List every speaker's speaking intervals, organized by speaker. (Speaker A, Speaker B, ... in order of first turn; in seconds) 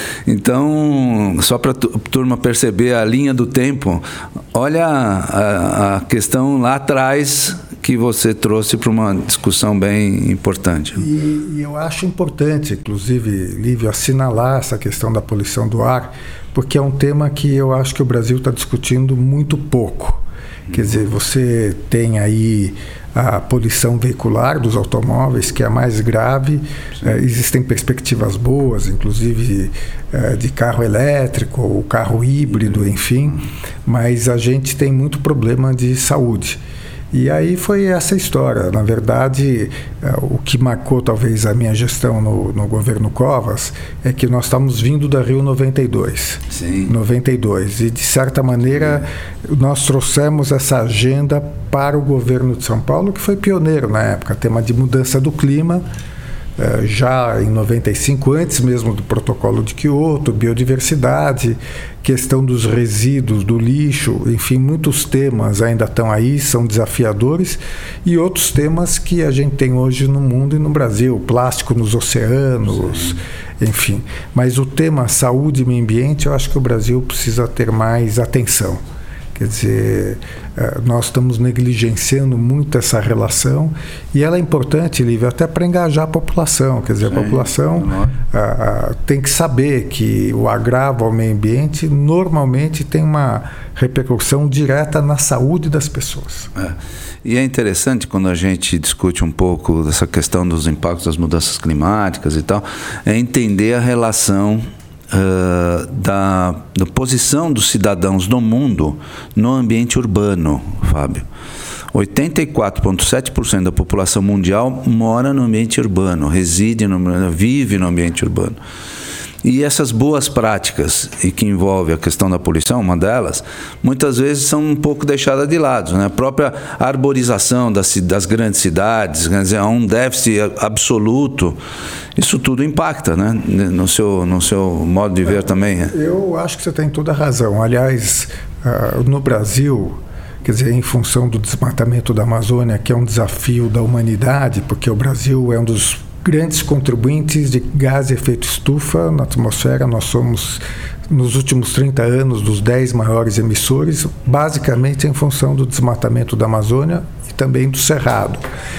Speaker A: 0.2-11.1, 20.7-21.0, 46.5-46.9, 48.8-49.0, 72.8-73.1, 87.1-88.1, 96.6-111.2, 111.9-118.6, 119.4-131.6, 132.2-135.9
Speaker B: 11.0-36.6, 37.1-55.8, 56.6-78.8, 79.3-96.5, 135.9-158.4